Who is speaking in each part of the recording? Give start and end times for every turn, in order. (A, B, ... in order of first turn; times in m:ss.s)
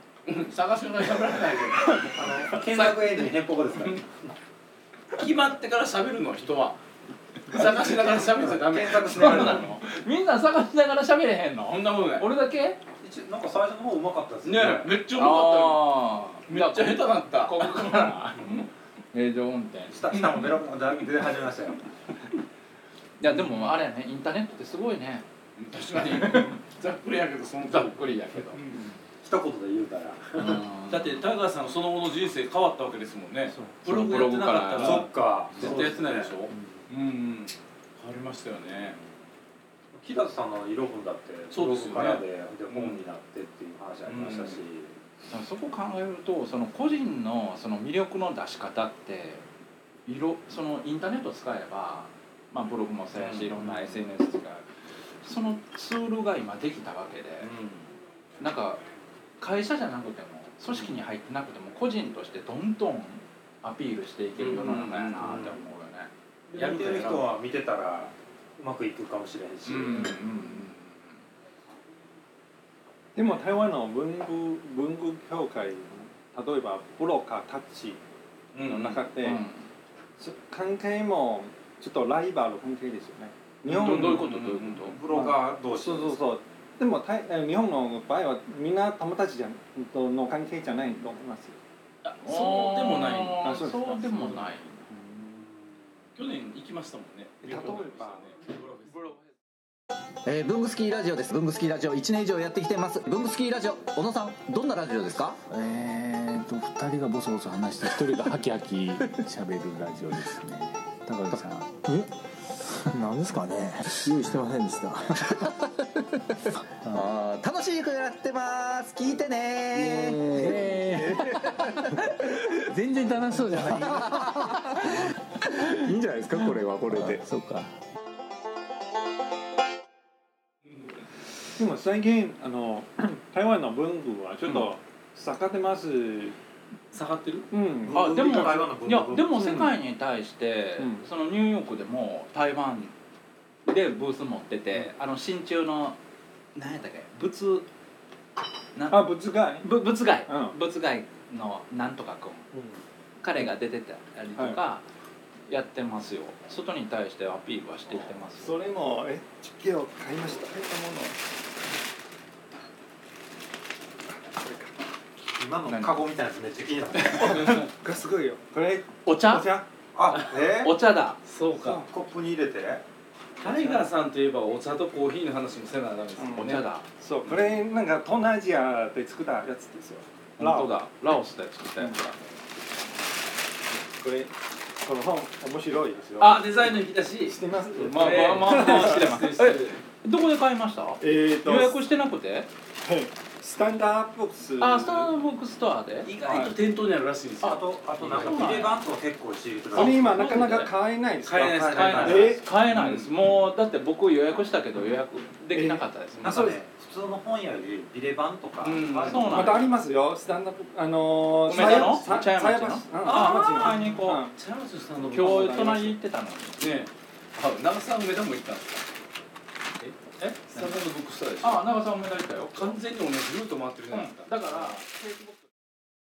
0:00.2-0:02.1 A
0:02.1-0:04.3 B
0:02.8-0:03.2 C
0:05.1-0:06.8 A
0:07.5-0:09.7 A
0:07.6-0:09.7 B
0:09.1-0:12.8 C
0:11.7-0:12.3 A
0:13.0-0:14.9 B
0:14.4-0:18.7 A
0:15.1-0:18.6 C
0:19.1-0:20.3 C
0:19.9-0:21.8 B
0:23.2-0:25.2 C
0:23.3-0:23.5 A
0:25.6-0:28.9 A
0:26.1-0:26.6 C
0:27.7-0:28.6 C
0:29.2-0:30.6 B
0:30.4-0:31.2 C
0:30.9-0:39.0 A
0:33.8-0:35.1 C
0:34.8-0:36.5 B
0:39.9-0:44.9 B
0:41.5-0:43.0 A
0:44.0-0:44.6 A
0:45.3-0:49.4 C
0:50.0-0:54.6 C
0:53.2-0:54.0 A
0:55.2-0:57.5 C
0:57.4-0:57.8 A
0:58.4-0:58.8 C
0:59.4-1:06.1 C
1:04.4-1:05.5 A
1:05.2-1:05.6 B
1:06.5-1:10.5 B
1:06.6-1:07.3 A
1:09.6-1:10.2 A
1:09.9-1:11.1 C
1:13.1-1:18.0 D
1:18.5-1:19.1 A
1:18.6-1:19.4 D
1:19.2-1:19.6 C
1:20.2-1:24.4 D
1:23.6-1:25.0 A
1:23.7-1:24.9 C
1:24.8-1:26.2 B
1:25.1-1:31.6 D
1:32.0-1:33.6 A
1:32.2-1:34.9 C
1:33.4-1:35.5 D
1:36.2-1:39.2 A
1:37.4-1:38.3 D
1:40.2-1:45.4 E
1:45.5-1:52.1 F
1:52.8-1:55.5 F
1:54.1-1:54.4 E
1:56.8-1:57.3 F
1:56.9-2:01.9 E
1:59.7-2:07.8 F
2:03.6-2:05.0 E
2:11.6-2:16.4 D
2:16.9-2:17.5 A
2:17.5-2:18.7 D
2:17.8-2:19.6 B
2:17.9-2:22.9 C
2:19.3-2:19.7 D
2:20.8-2:21.0 D
2:23.6-2:26.0 C
2:26.5-2:27.7 C
2:28.7-2:32.5 C
2:28.9-2:29.7 D
2:30.3-2:30.6 D
2:32.5-2:32.8 D
2:33.2-2:34.8 C
2:35.5-2:38.6 C
2:38.4-2:41.3 D
2:44.2-2:44.7 D
2:45.4-2:47.6 B
2:45.7-2:46.0 C
2:47.1-2:49.7 D
2:49.0-2:49.5 C
2:49.9-2:50.8 B
2:50.6-2:51.2 C
2:51.2-2:51.8 A
2:51.6-2:52.8 B
2:53.4-2:56.6 A
2:53.4-2:53.9 D
2:56.2-3:00.7 D
2:56.4-2:56.8 C
3:00.4-3:02.3 C
3:04.0-3:06.6 D
3:06.2-3:09.8 A
3:07.2-3:09.1 D
3:07.8-3:12.5 C
3:11.0-3:11.8 D
3:12.8-3:15.1 D
3:14.6-3:16.1 C
3:16.0-3:18.7 A
3:16.2-3:16.5 D
3:17.4-3:20.6 B
3:18.0-3:18.8 C
3:19.7-3:22.4 D
3:19.7-3:23.1 A
3:21.2-3:22.4 B
3:22.2-3:26.5 C
3:25.5-3:26.6 D
3:26.2-3:29.6 B
3:28.6-3:29.6 A
3:29.1-3:29.6 C
3:29.3-3:34.3 D
3:31.4-3:34.2 C
3:31.5-3:32.1 A
3:33.0-3:35.9 A
3:35.1-3:36.6 C
3:36.6-3:38.8 A
3:39.8-3:41.7 A
3:40.2-3:40.7 C
3:41.4-3:42.8 C
3:42.5-3:44.8 A
3:43.9-3:45.1 C